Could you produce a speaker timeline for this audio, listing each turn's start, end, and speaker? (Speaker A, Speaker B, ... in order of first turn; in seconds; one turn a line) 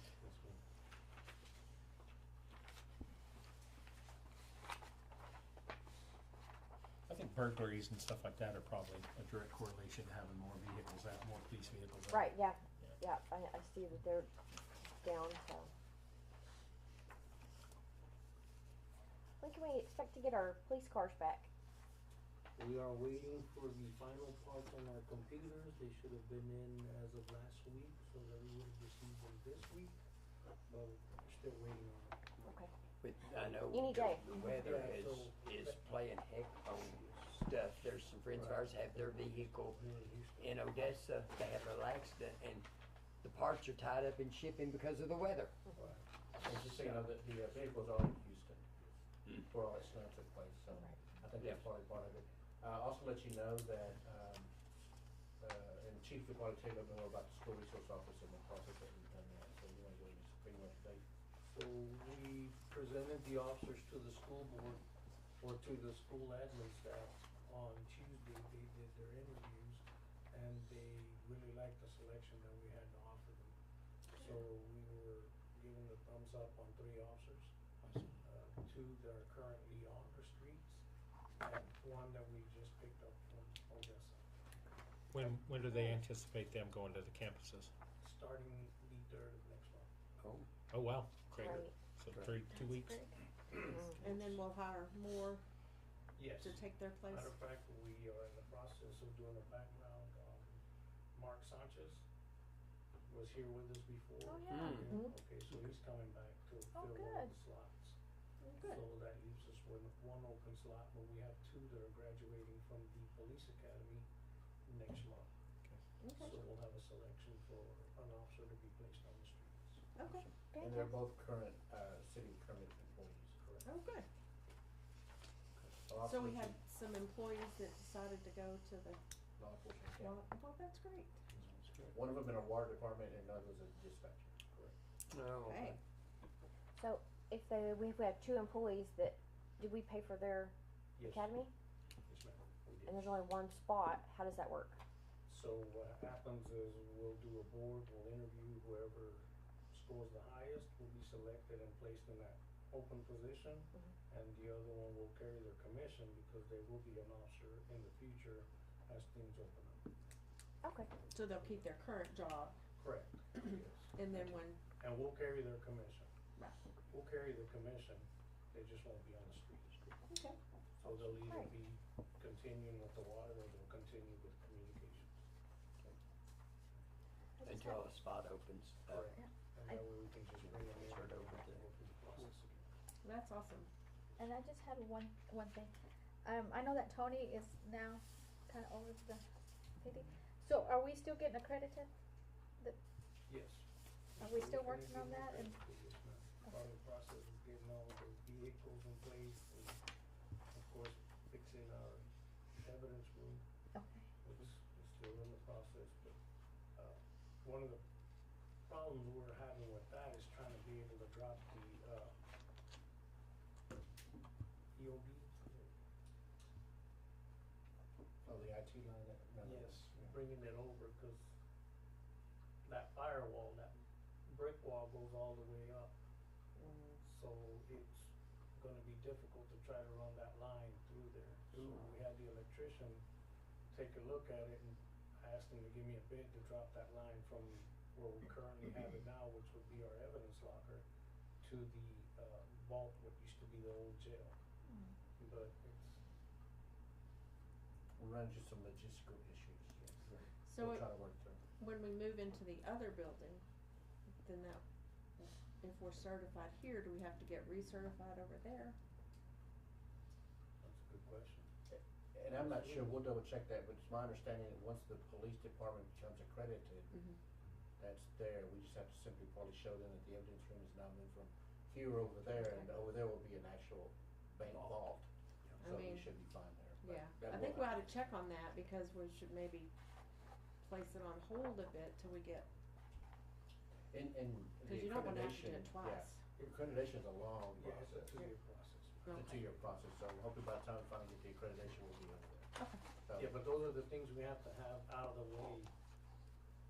Speaker A: 0.2-0.6
Speaker B: 7.1-12.3
Speaker C: 12.1-15.7
Speaker C: 19.4-21.5
Speaker A: 22.5-29.9
Speaker A: 30.6-32.2
Speaker C: 32.4-32.7
Speaker D: 33.0-39.9
Speaker C: 33.7-34.4
Speaker A: 34.3-35.9
Speaker A: 36.7-37.4
Speaker A: 38.3-40.6
Speaker D: 40.4-42.7
Speaker D: 43.2-45.6
Speaker A: 45.7-46.1
Speaker E: 46.4-48.7
Speaker E: 49.4-54.5
Speaker E: 55.4-61.0
Speaker A: 61.5-64.8
Speaker A: 65.4-73.5
Speaker A: 74.2-80.8
Speaker A: 81.4-84.3
Speaker B: 85.1-87.7
Speaker A: 88.0-89.9
Speaker D: 90.2-90.5
Speaker B: 90.7-93.0
Speaker C: 91.3-91.8
Speaker D: 92.1-92.3
Speaker F: 92.5-93.2
Speaker G: 94.0-95.4
Speaker A: 96.1-100.6
Speaker G: 96.4-97.3
Speaker A: 101.1-102.0
Speaker A: 103.0-108.0
Speaker C: 104.2-105.1
Speaker D: 104.5-105.0
Speaker F: 106.7-107.3
Speaker G: 108.4-108.8
Speaker A: 108.6-114.1
Speaker A: 114.7-115.3
Speaker G: 116.0-116.4
Speaker A: 116.2-119.8
Speaker G: 120.0-120.3
Speaker C: 120.5-121.0
Speaker E: 120.6-123.4
Speaker A: 123.4-123.7
Speaker G: 123.6-124.1
Speaker E: 125.9-126.6
Speaker G: 126.0-129.0
Speaker E: 129.4-130.2
Speaker G: 130.0-131.2
Speaker E: 131.9-134.3
Speaker D: 135.1-135.8
Speaker G: 135.4-135.8
Speaker C: 136.8-141.5
Speaker A: 140.9-141.4
Speaker A: 142.1-143.2
Speaker C: 142.8-144.8
Speaker A: 145.3-159.9
Speaker C: 160.6-160.9
Speaker G: 161.1-162.6
Speaker A: 161.4-161.7
Speaker A: 162.8-166.1
Speaker G: 163.4-164.6
Speaker A: 166.9-169.9
Speaker G: 170.1-170.4
Speaker A: 170.8-175.1
Speaker C: 171.2-171.5
Speaker F: 177.4-177.9
Speaker D: 177.4-179.1
Speaker A: 178.9-182.7
Speaker F: 179.2-179.8
Speaker D: 180.3-181.6
Speaker G: 183.0-183.7
Speaker F: 184.2-189.2
Speaker F: 189.8-191.9
Speaker A: 193.2-199.8
Speaker F: 194.2-195.7
Speaker A: 200.5-203.4
Speaker F: 203.7-204.1
Speaker A: 204.2-206.2
Speaker A: 206.7-207.8
Speaker A: 208.6-212.1
Speaker A: 214.7-215.7
Speaker E: 218.2-220.2
Speaker A: 219.4-221.3
Speaker A: 222.6-225.9
Speaker G: 226.6-227.0
Speaker A: 227.0-233.0
Speaker A: 233.7-240.8
Speaker A: 241.4-244.3
Speaker F: 244.7-244.9
Speaker A: 245.2-246.0
Speaker E: 247.9-251.4
Speaker A: 249.8-250.2
Speaker G: 250.4-250.9
Speaker G: 251.6-253.4
Speaker G: 254.2-254.6
Speaker G: 255.2-258.8
Speaker A: 260.6-261.5
Speaker E: 261.7-266.9
Speaker A: 262.3-263.0
Speaker E: 267.8-277.8
Speaker G: 272.4-272.7
Speaker G: 275.6-276.1
Speaker G: 276.8-279.7
Speaker G: 280.6-282.5
Speaker E: 283.9-288.2
Speaker G: 284.6-286.2
Speaker A: 286.4-286.6
Speaker A: 287.5-289.1
Speaker G: 289.1-289.4
Speaker E: 289.1-293.4
Speaker A: 293.1-295.7